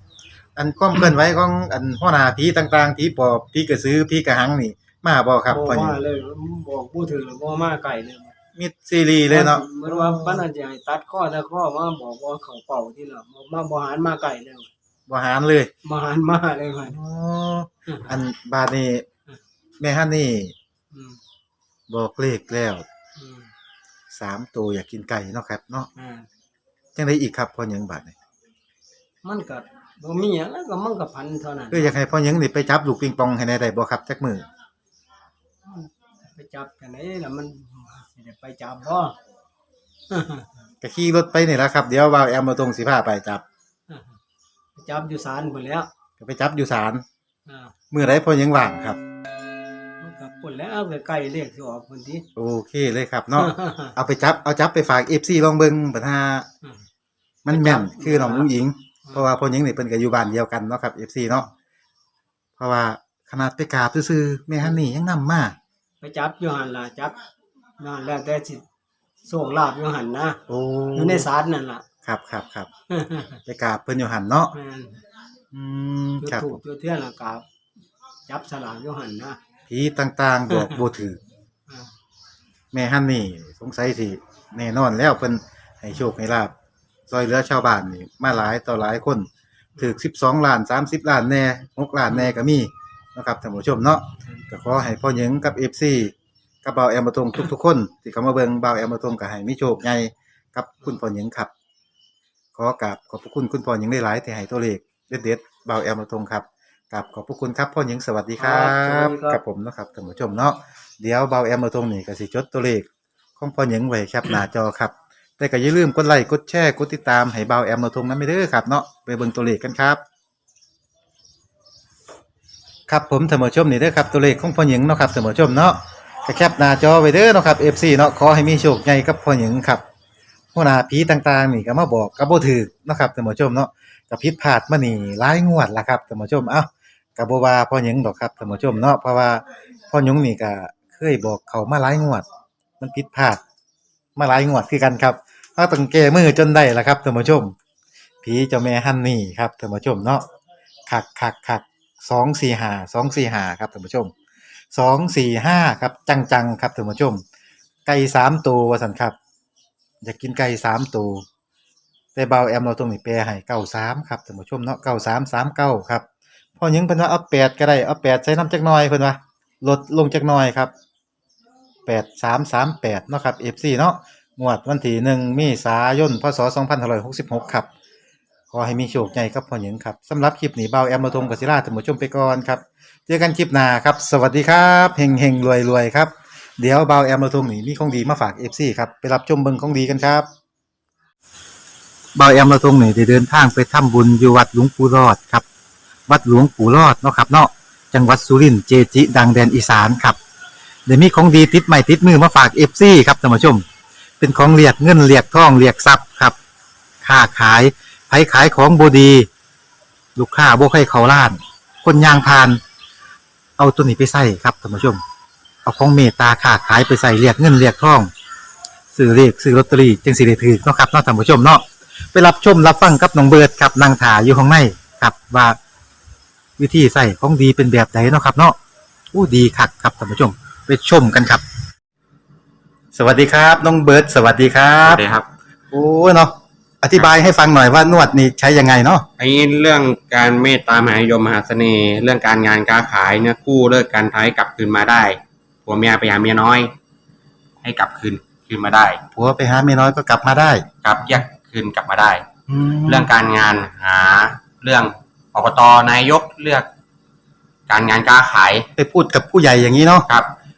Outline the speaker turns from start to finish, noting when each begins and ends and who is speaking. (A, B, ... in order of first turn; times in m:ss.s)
0:00.6-0:06.0 A
0:05.5-0:08.3 B
0:08.6-0:10.4 A
0:09.3-0:14.7 B
0:15.1-0:15.7 A
0:15.8-0:17.0 B
0:16.8-0:19.0 A
0:19.8-0:20.5 A
0:20.9-0:21.2 B
0:21.9-0:22.8 A
0:23.2-0:23.5 B
0:24.1-0:25.9 A
0:26.0-0:26.3 B
0:26.9-0:28.1 A
0:29.2-0:32.0 B
0:31.7-0:34.4 A
0:35.6-0:39.2 B
0:40.1-0:40.5 B
0:40.8-0:43.4 A
0:43.9-0:44.2 B
0:44.8-0:45.9 B
0:46.2-0:47.0 A
0:47.5-0:47.7 B
0:47.9-0:49.0 A
0:50.0-0:52.2 B
0:52.4-0:56.5 A
0:53.3-0:53.9 B
0:57.4-1:01.5 A
0:57.5-0:58.5 B
1:02.6-1:05.6 A
1:06.0-1:07.2 B
1:07.8-1:08.6 B
1:09.2-1:10.4 B
1:10.5-1:11.3 A
1:10.9-1:11.8 B
1:12.0-1:12.7 A
1:12.9-1:13.4 B
1:13.4-1:14.5 A
1:14.5-1:15.0 B
1:15.5-1:16.6 A
1:16.2-1:17.4 B
1:18.3-1:19.4 B
1:19.7-1:21.2 A
1:20.5-1:20.8 B
1:22.7-1:26.5 A
1:27.1-1:41.5 A
1:32.1-1:32.4 B
1:42.5-1:52.9 A
1:48.4-1:49.4 B
1:53.4-2:00.0 A
2:02.9-2:09.8 A
2:10.5-2:22.2 A
2:22.8-2:23.4 A
2:24.2-2:27.5 A
2:28.2-2:30.2 A
2:30.9-2:34.1 A
2:34.7-2:37.2 A
2:37.8-2:39.2 A
2:40.0-2:41.2 A
2:42.1-2:46.0 A
2:46.6-2:50.7 A
2:51.8-2:57.7 A
2:58.5-3:10.3 A
3:12.2-3:15.4 A
3:16.1-3:20.2 A
3:20.9-3:23.6 A
3:24.2-3:26.4 A
3:27.0-3:29.3 A
3:30.2-3:32.6 A
3:33.6-3:35.0 A
3:35.6-3:38.1 A
3:38.9-3:45.6 A
3:46.6-3:48.6 A
3:49.1-3:51.4 A
3:52.9-3:55.0 A
3:54.9-3:55.3 C
3:55.7-3:59.0 A
3:59.3-4:06.7 C
4:07.6-4:09.0 C
4:09.1-4:10.6 A
4:10.8-4:12.2 C
4:12.5-4:13.1 A
4:12.9-4:16.7 C
4:17.7-4:18.7 C
4:18.8-4:20.1 A